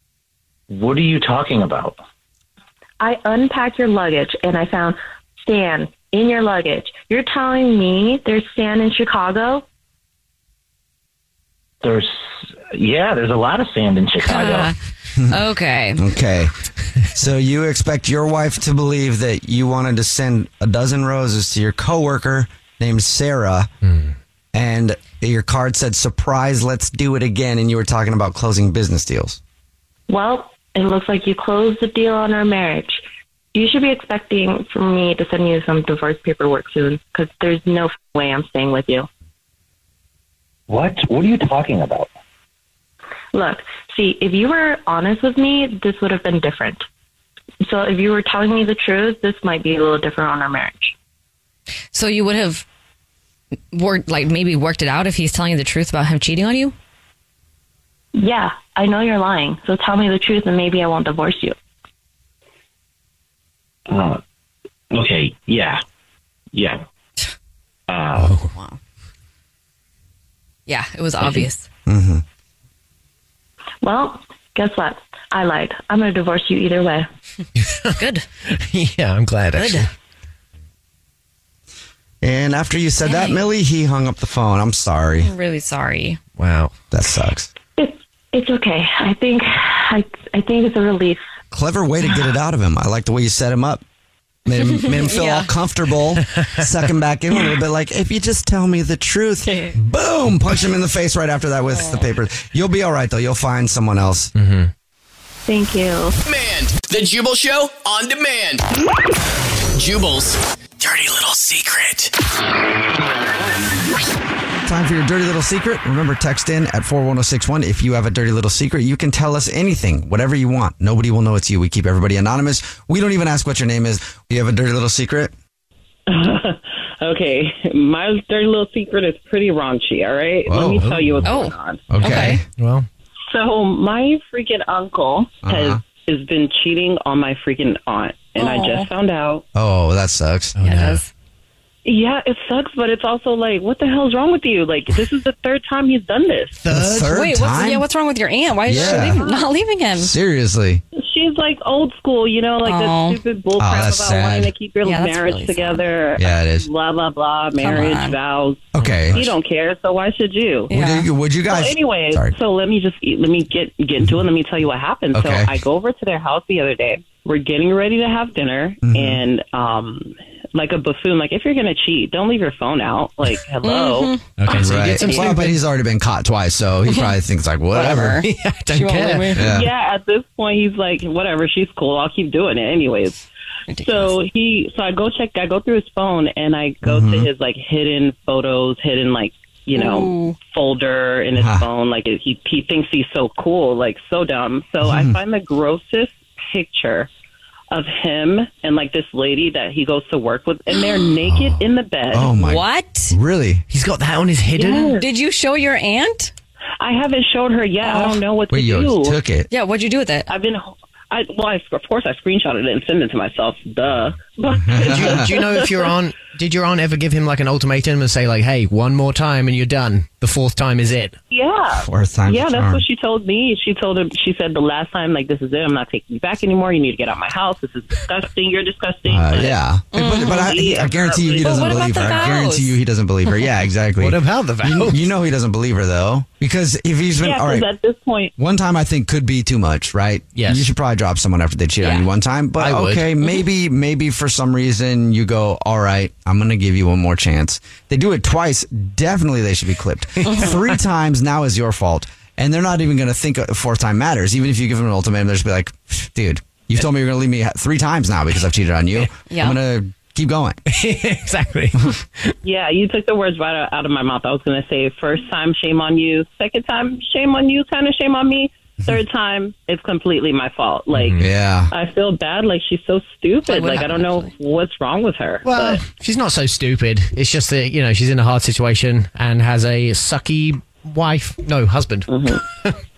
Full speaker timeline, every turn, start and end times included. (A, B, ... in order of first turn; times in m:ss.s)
0:00.7-0:02.0 A
0:03.0-0:09.6 B
0:11.8-0:14.7 A
0:14.2-0:14.7 C
0:15.3-0:16.0 C
0:16.0-0:16.5 D
0:17.1-0:23.7 D
0:23.8-0:24.1 E
0:24.5-0:29.4 D
0:30.1-0:39.1 B
0:40.7-0:42.1 A
0:43.3-0:46.8 B
0:47.6-0:50.9 B
0:51.9-0:52.6 C
0:53.7-0:56.7 C
0:58.2-1:01.5 B
1:03.9-1:04.2 A
1:04.9-1:05.8 A
1:06.5-1:06.8 A
1:07.9-1:08.4 A
1:08.2-1:08.5 E
1:08.5-1:08.8 C
1:10.7-1:11.7 C
1:11.9-1:12.2 D
1:13.8-1:17.1 B
1:17.6-1:18.0 E
1:18.0-1:18.2 C
1:18.5-1:19.9 E
1:19.5-1:19.9 C
1:22.2-1:25.3 D
1:23.0-1:23.4 C
1:25.2-1:26.2 C
1:26.4-1:26.7 E
1:26.9-1:27.5 D
1:27.8-1:31.2 B
1:31.5-1:33.8 D
1:34.4-1:44.3 D
1:34.6-1:35.5 C
1:39.4-1:39.7 C
1:44.3-1:44.7 E
1:45.4-1:46.2 B
1:46.2-1:48.6 F
1:49.7-1:52.1 F
1:54.6-2:05.3 D
2:06.1-2:11.9 G
2:10.4-2:11.0 D
2:10.8-2:11.2 E
2:11.2-2:12.4 C
2:11.9-2:12.4 D
2:12.0-2:12.8 E
2:13.3-2:19.4 G
2:15.4-2:15.8 D
2:18.4-2:18.9 C
2:19.5-2:20.6 D
2:20.6-2:21.0 E
2:20.6-2:21.1 C
2:21.8-2:26.6 G
2:26.6-2:27.1 E
2:26.7-2:27.8 D
2:26.9-2:30.1 C
2:28.6-2:29.2 D
2:28.7-2:29.5 G
2:30.0-2:30.8 D
2:31.0-2:40.7 G
2:32.6-2:33.2 C
2:33.6-2:34.5 D
2:34.8-2:35.8 C
2:36.2-2:36.7 D
2:37.6-2:38.2 C
2:38.7-2:39.2 D
2:38.8-2:39.2 E
2:40.7-2:41.1 C
2:40.7-2:42.3 D
2:41.5-2:55.3 G
2:45.1-2:45.6 D
2:48.8-2:49.2 D
2:53.6-2:54.2 C
2:54.4-2:55.6 E
2:54.5-2:58.2 D
2:57.7-2:59.5 C
2:57.8-2:59.5 E
2:59.3-2:59.7 D
2:59.4-3:03.2 G
3:03.7-3:04.1 C
3:03.8-3:17.1 G
3:06.8-3:07.3 D
3:09.7-3:10.4 C
3:11.4-3:11.7 D
3:14.8-3:15.2 D
3:17.7-3:22.4 G
3:22.1-3:23.6 D
3:22.4-3:23.1 C
3:23.7-3:25.0 E
3:24.6-3:25.0 G
3:24.9-3:26.3 C
3:26.8-3:29.2 G
3:27.8-3:28.2 C
3:28.5-3:29.5 D
3:29.5-3:30.3 C
3:30.3-3:35.9 G
3:34.7-3:35.2 D
3:34.8-3:41.2 E
3:41.3-3:52.3 G
3:41.8-3:42.8 D
3:49.0-3:57.7 D
3:49.9-3:50.6 C
3:51.4-3:52.7 C
3:54.0-3:55.1 E
3:57.2-3:58.3 G
3:58.4-4:20.6 D
4:00.3-4:00.7 E
4:01.8-4:02.1 C
4:02.6-4:03.1 E
4:10.2-4:10.5 C
4:19.3-4:19.6 C
4:20.7-4:22.3 E
4:22.4-4:35.8 G
4:30.9-4:31.3 E
4:31.2-4:31.7 D
4:33.4-4:34.3 C
4:35.4-4:42.1 E
4:42.1-4:42.4 G